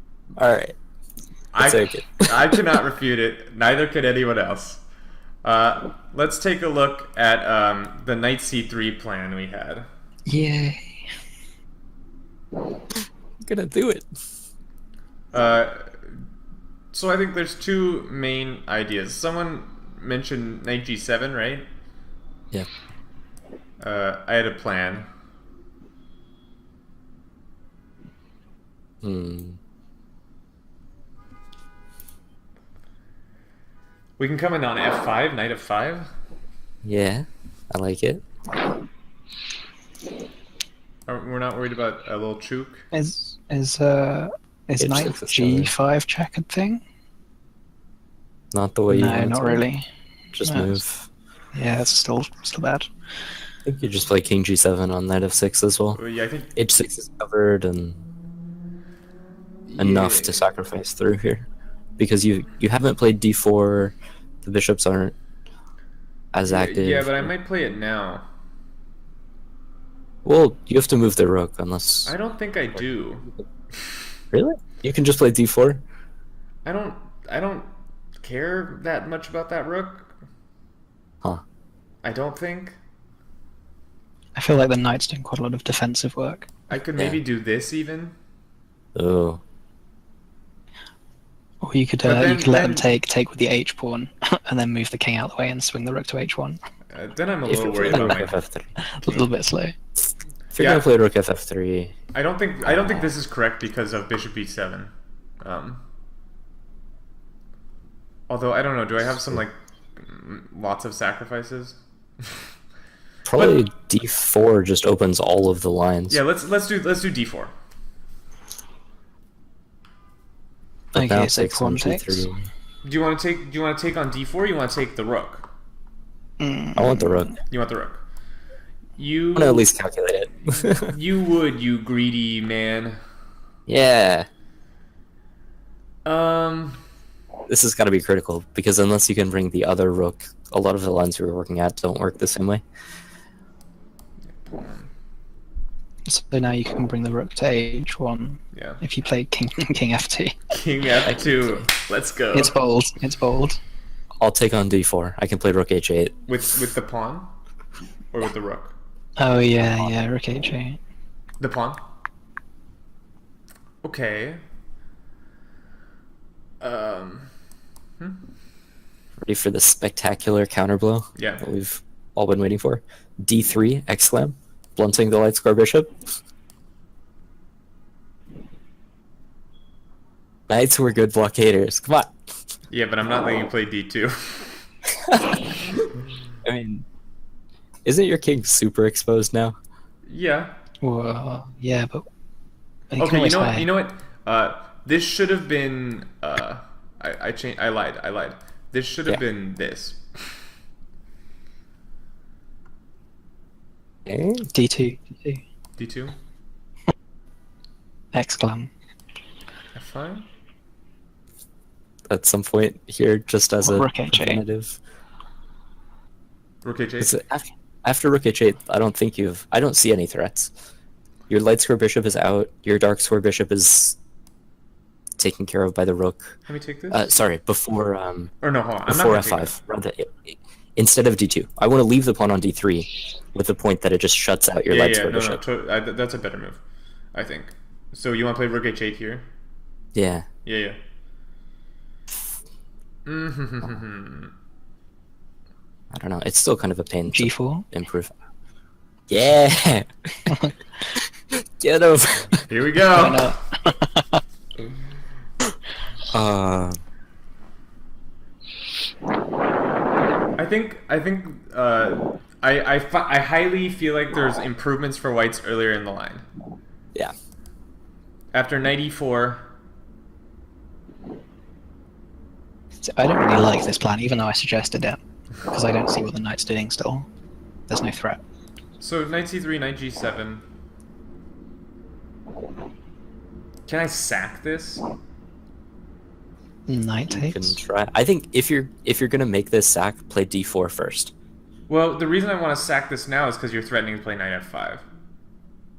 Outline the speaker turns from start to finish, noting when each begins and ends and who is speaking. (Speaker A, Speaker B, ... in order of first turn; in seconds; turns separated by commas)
Speaker A: 0.4-0.8, Speaker B: 1.5-4.8, Speaker A: 1.6-2.6, Speaker B: 5.4-9.9, Speaker C: 10.3-10.8, Speaker A: 13.4-14.1, Speaker B: 15.3-16.1, Speaker B: 16.9-21.7, Speaker B: 23.8-25.1, Speaker A: 29.0-29.6, Speaker B: 34.2-36.1, Speaker A: 36.8-38.2, Speaker B: 41.1-42.9, Speaker C: 42.9-46.8, Speaker A: 44.8-45.7, Speaker A: 48.5-49.6, Speaker C: 48.9-49.9, Speaker A: 50.3-51.1, Speaker C: 50.5-50.8, Speaker C: 51.5-52.9, Speaker A: 53.7-56.0, Speaker B: 56.0-56.5, Speaker A: 56.6-58.0, Speaker B: 59.7-60.5, Speaker A: 59.8-65.2, Speaker A: 66.3-67.3, Speaker B: 66.4-68.2, Speaker A: 70.2-72.1, Speaker B: 72.0-73.3, Speaker A: 74.3-75.8, Speaker B: 76.7-80.1, Speaker B: 82.0-82.8, Speaker C: 84.4-86.5, Speaker B: 86.7-88.2, Speaker A: 89.0-89.4, Speaker C: 91.6-96.6, Speaker B: 92.0-92.9, Speaker B: 96.9-98.4, Speaker A: 97.5-98.7, Speaker C: 98.8-99.8, Speaker A: 100.5-102.0, Speaker B: 100.6-100.9, Speaker B: 102.1-104.9, Speaker B: 105.4-105.8, Speaker B: 108.3-111.8, Speaker A: 113.3-116.2, Speaker B: 113.4-113.6, Speaker B: 116.1-117.5, Speaker A: 120.9-122.5, Speaker C: 120.9-122.3, Speaker B: 122.8-125.5, Speaker C: 126.4-127.3, Speaker A: 126.8-127.3, Speaker B: 127.5-128.0, Speaker B: 129.0-129.7, Speaker A: 129.3-130.9, Speaker B: 130.6-133.0, Speaker A: 133.7-134.3, Speaker B: 136.1-136.8, Speaker A: 137.5-142.7, Speaker B: 144.4-144.9, Speaker C: 146.1-150.4, Speaker B: 148.5-148.8, Speaker B: 150.5-152.6, Speaker A: 151.1-151.3, Speaker C: 152.3-153.6, Speaker A: 154.2-156.2, Speaker B: 156.3-157.3, Speaker B: 158.1-158.8, Speaker C: 159.2-160.8, Speaker B: 161.4-161.8, Speaker B: 163.8-164.4, Speaker B: 166.6-167.3, Speaker A: 169.2-175.9, Speaker B: 171.2-171.5, Speaker A: 180.5-182.1, Speaker B: 182.7-184.6, Speaker A: 185.1-185.8, Speaker A: 186.4-186.9, Speaker A: 187.8-189.6, Speaker B: 190.1-190.6, Speaker C: 190.8-192.1, Speaker C: 192.9-193.7, Speaker B: 193.0-200.0, Speaker A: 204.1-204.5, Speaker C: 204.5-205.4, Speaker B: 205.8-206.2, Speaker C: 208.1-208.7, Speaker B: 209.8-210.3, Speaker A: 212.1-214.8, Speaker C: 213.6-214.4, Speaker B: 216.6-217.2, Speaker A: 217.0-220.5, Speaker A: 221.3-224.0, Speaker A: 225.2-226.4, Speaker B: 226.5-227.1, Speaker A: 226.9-228.3, Speaker B: 228.4-229.5, Speaker A: 228.9-235.4, Speaker B: 234.7-236.6, Speaker B: 237.1-239.3, Speaker A: 239.9-240.3, Speaker B: 240.4-240.8, Speaker B: 243.1-244.3, Speaker A: 245.9-248.1, Speaker C: 247.1-247.7, Speaker A: 249.1-250.3, Speaker A: 250.9-252.3, Speaker B: 252.5-253.3, Speaker C: 252.9-254.2, Speaker A: 256.1-256.8, Speaker B: 260.4-266.2, Speaker B: 268.3-269.5, Speaker C: 272.9-277.1, Speaker C: 277.7-278.2, Speaker B: 278.8-280.4, Speaker B: 283.7-284.8, Speaker C: 286.7-287.6, Speaker A: 287.1-291.1, Speaker B: 291.7-294.9